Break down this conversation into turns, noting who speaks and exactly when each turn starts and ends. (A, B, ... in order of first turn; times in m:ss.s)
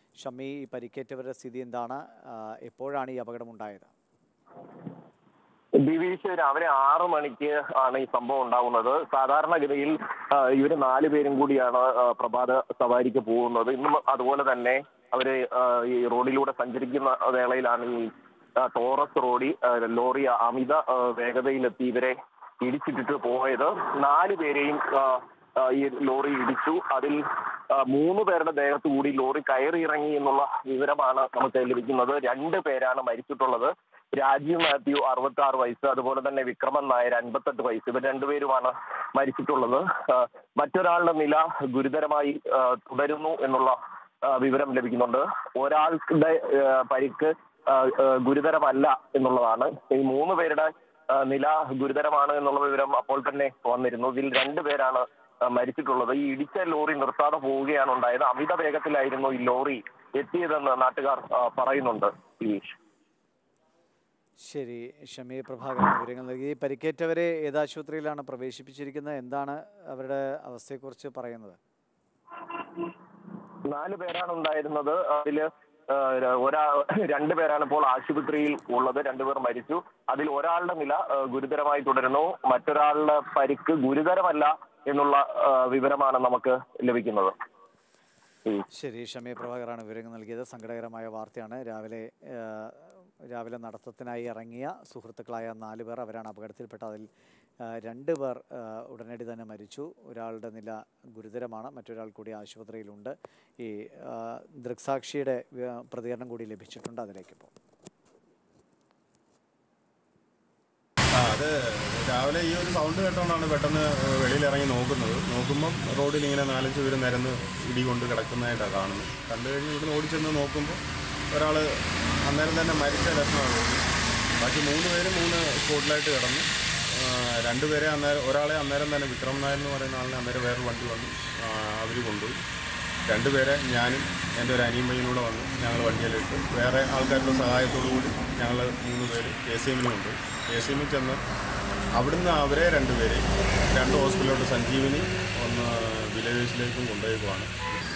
0:00.2-0:03.9 A
0:05.8-1:02.7 B
1:04.4-1:11.6 A
1:13.7-1:27.3 B
1:28.7-1:37.1 A
1:37.7-1:47.5 A
1:51.2-2:03.8 C
2:04.4-2:12.4 C
2:13.1-2:21.2 C
2:22.0-2:27.5 C